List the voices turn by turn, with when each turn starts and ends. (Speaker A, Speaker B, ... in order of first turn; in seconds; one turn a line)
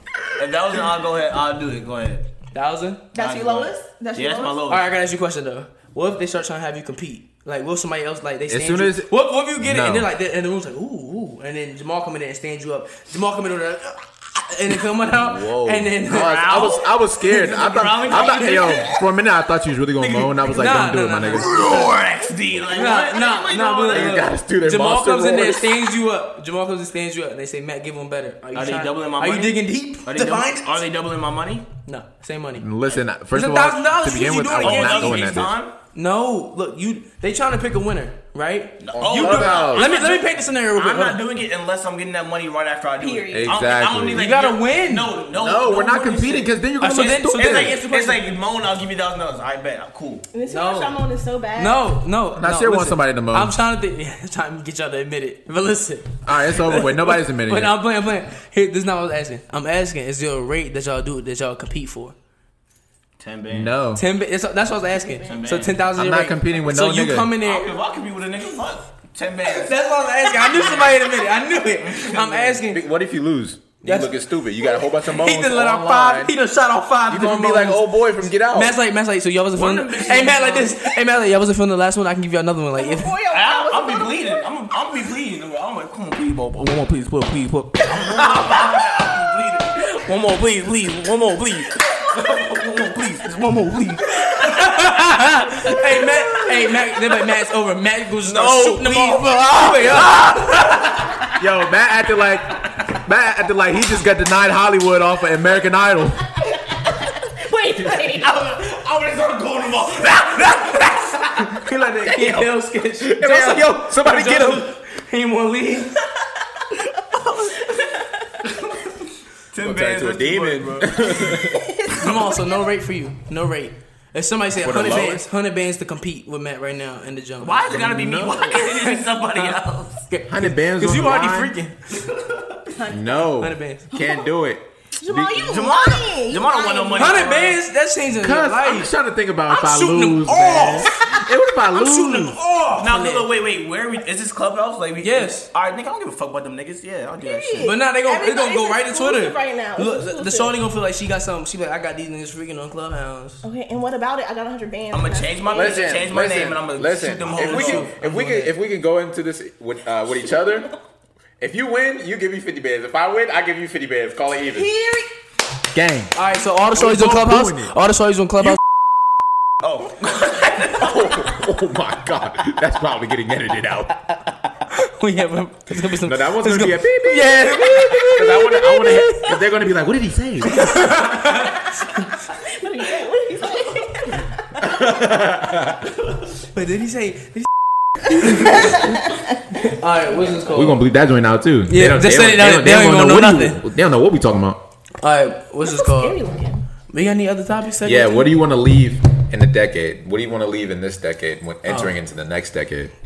Speaker A: 0.3-2.2
Speaker B: 2.5-3.1
Speaker C: 3.1-4.6
Speaker A: 3.1-4.8
Speaker B: 4.7-16.8
Speaker D: 8.5-10.1
Speaker D: 15.2-21.5
Speaker A: 16.1-19.1
Speaker B: 17.8-18.7
Speaker A: 20.0-20.4
Speaker B: 20.4-22.0
Speaker A: 21.3-24.2
Speaker B: 22.7-30.8
Speaker D: 23.9-25.8
Speaker A: 28.5-31.7
Speaker B: 31.9-32.7
Speaker D: 32.6-35.5
Speaker B: 33.3-35.4
Speaker A: 34.5-35.7
Speaker B: 35.9-41.2
Speaker A: 38.8-50.3
Speaker D: 38.9-39.9
Speaker C: 43.0-43.8
Speaker D: 43.3-44.3
Speaker B: 44.1-45.1
Speaker D: 45.3-47.8
Speaker B: 46.8-48.2
Speaker C: 50.3-51.9
Speaker B: 50.5-51.0
Speaker B: 51.5-62.1
Speaker D: 52.4-53.5
Speaker D: 56.2-57.7
Speaker A: 63.2-63.7
Speaker D: 63.5-64.0
Speaker B: 63.9-67.7
Speaker C: 64.8-65.7
Speaker A: 65.2-65.8
Speaker D: 66.0-67.3
Speaker A: 67.4-69.8
Speaker B: 69.5-72.8
Speaker A: 70.3-70.8
Speaker A: 71.8-72.6
Speaker D: 72.7-76.3
Speaker B: 73.8-74.1
Speaker B: 75.0-83.2
Speaker D: 77.1-78.7
Speaker A: 79.5-80.8
Speaker C: 82.8-84.4
Speaker A: 83.3-94.9
Speaker B: 94.3-100.7
Speaker A: 95.8-96.7
Speaker A: 98.2-101.3
Speaker D: 101.4-106.4
Speaker C: 107.2-108.3
Speaker A: 107.8-112.1
Speaker B: 111.3-116.0
Speaker D: 112.1-112.5
Speaker D: 113.0-114.7
Speaker C: 117.7-118.0
Speaker A: 118.5-118.9
Speaker A: 119.5-121.4
Speaker D: 119.6-121.7
Speaker C: 121.2-122.7
Speaker B: 121.9-127.7
Speaker D: 124.5-125.2
Speaker A: 127.4-130.0
Speaker D: 127.7-128.5
Speaker B: 128.5-132.0
Speaker D: 130.3-131.5
Speaker A: 132.1-132.6
Speaker C: 132.7-133.3
Speaker D: 132.9-135.6
Speaker B: 133.4-133.9
Speaker C: 133.9-134.3
Speaker C: 135.0-137.2
Speaker A: 135.3-137.6
Speaker B: 136.9-138.9
Speaker D: 138.1-142.4
Speaker B: 139.5-140.9
Speaker C: 140.8-141.2
Speaker B: 141.7-143.3
Speaker A: 142.8-147.8
Speaker B: 145.0-145.5
Speaker C: 147.2-150.6
Speaker B: 147.6-153.4
Speaker C: 153.4-156.0
Speaker A: 154.9-157.9
Speaker D: 155.5-160.7
Speaker B: 157.3-158.5
Speaker D: 161.4-164.7
Speaker C: 164.5-165.1
Speaker D: 165.7-167.7
Speaker B: 166.1-168.6
Speaker A: 169.6-171.3
Speaker D: 170.8-174.5
Speaker B: 174.7-179.3
Speaker D: 175.8-181.0
Speaker B: 180.5-182.1
Speaker C: 181.3-184.9
Speaker D: 184.6-185.9
Speaker B: 186.4-187.5
Speaker B: 188.1-188.7
Speaker C: 188.5-189.0
Speaker B: 189.6-190.8
Speaker D: 190.5-194.6
Speaker B: 191.7-193.6
Speaker B: 195.0-196.2
Speaker C: 195.6-196.7
Speaker B: 196.9-198.3
Speaker D: 197.8-202.9
Speaker B: 201.7-201.9